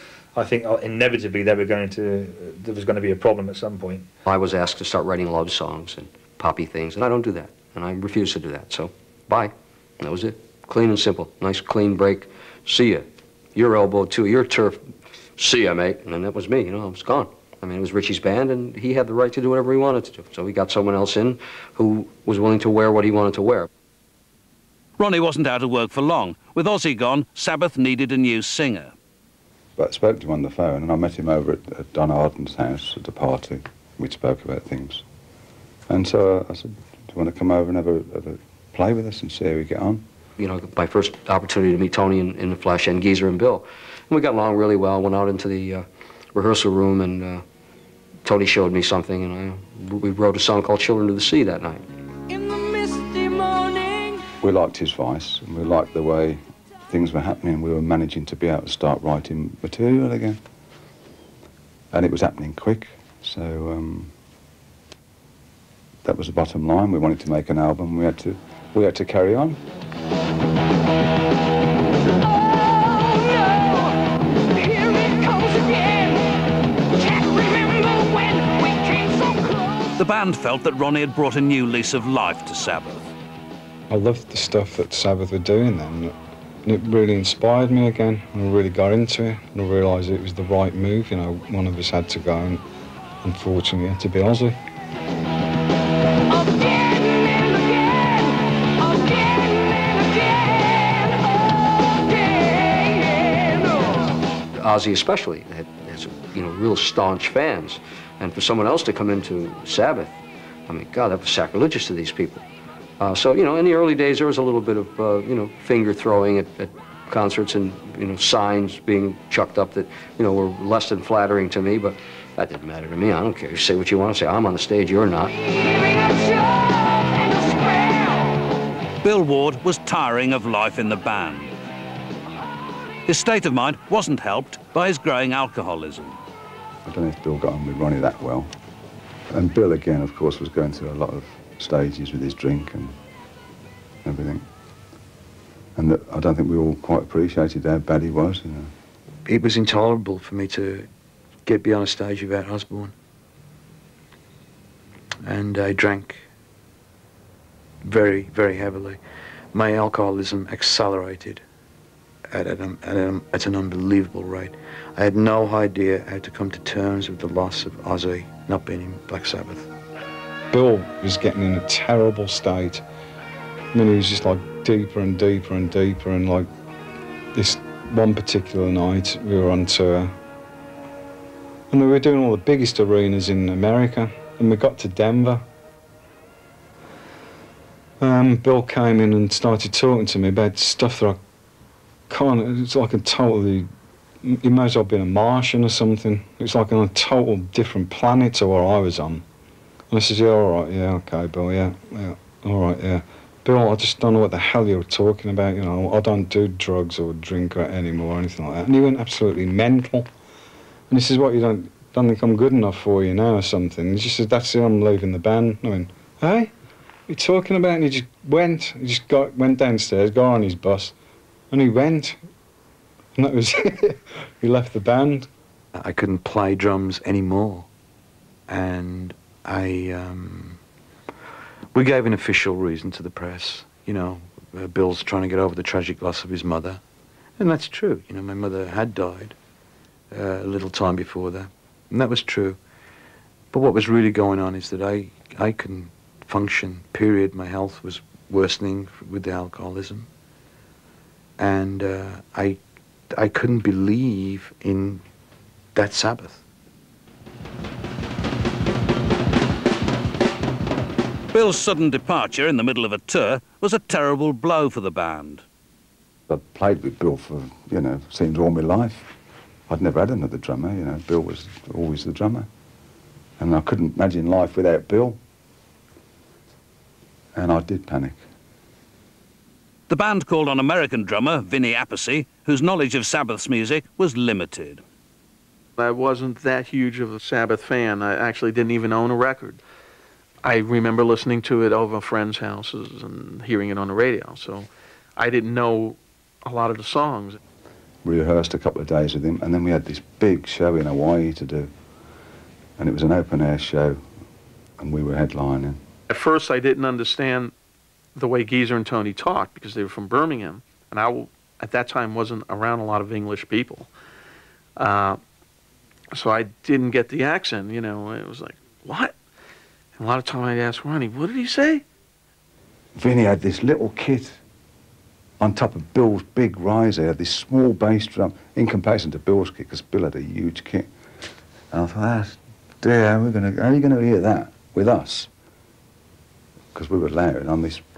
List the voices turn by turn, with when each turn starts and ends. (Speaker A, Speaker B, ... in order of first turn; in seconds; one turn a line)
Speaker A: 0.3-4.1
Speaker B: 4.2-23.7
Speaker C: 25.0-28.9
Speaker D: 29.8-35.0
Speaker D: 35.9-40.1
Speaker B: 40.4-47.4
Speaker B: 48.2-51.9
Speaker E: 52.3-54.2
Speaker D: 54.4-60.4
Speaker D: 61.9-64.1
Speaker D: 66.0-69.6
Speaker E: 72.1-74.0
Speaker E: 74.5-76.3
Speaker E: 76.9-80.0
Speaker C: 80.0-83.1
Speaker F: 83.9-86.1
Speaker F: 86.7-92.6
Speaker F: 93.2-94.6
Speaker E: 96.3-101.2
Speaker E: 102.1-104.0
Speaker B: 104.6-112.4
Speaker B: 113.0-125.3
Speaker E: 125.5-128.4
Speaker C: 129.0-131.5
Speaker C: 133.1-136.2
Speaker D: 136.8-138.5
Speaker D: 139.3-142.9
Speaker D: 144.0-144.4
Speaker D: 145.8-148.7
Speaker G: 149.2-150.9
Speaker G: 151.5-152.9
Speaker G: 155.2-156.3
Speaker G: 157.8-159.0
Speaker G: 159.5-161.4
Speaker G: 162.3-169.7
Speaker F: 170.5-172.8
Speaker F: 173.7-176.5
Speaker F: 177.3-180.1
Speaker F: 181.7-185.4
Speaker F: 188.0-191.2
Speaker F: 192.1-193.7
Speaker F: 194.2-199.2
Speaker F: 199.9-210.1
Speaker F: 210.9-216.5
Speaker F: 217.1-220.9
Speaker F: 221.5-222.2
Speaker F: 223.2-225.3
Speaker G: 225.7-227.7
Speaker G: 228.5-230.6
Speaker G: 231.7-236.8
Speaker G: 237.4-239.4
Speaker G: 240.1-242.6
Speaker G: 243.5-250.1
Speaker G: 251.4-252.6
Speaker G: 253.1-255.0
Speaker G: 255.8-256.4
Speaker C: 261.3-265.4
Speaker D: 266.3-269.1
Speaker D: 269.7-272.5
Speaker D: 273.4-275.2
Speaker D: 277.3-278.2
Speaker C: 279.9-284.8
Speaker H: 285.8-289.6
Speaker H: 290.4-297.4
Speaker D: 298.0-301.7
Speaker D: 302.8-304.1
Speaker D: 304.8-305.8
Speaker H: 306.1-307.5
Speaker H: 308.1-313.9
Speaker H: 314.8-315.2
Speaker H: 316.1-319.2
Speaker H: 320.0-321.9
Speaker D: 323.0-324.4
Speaker D: 325.4-330.9
Speaker D: 331.7-335.3
Speaker D: 336.7-337.8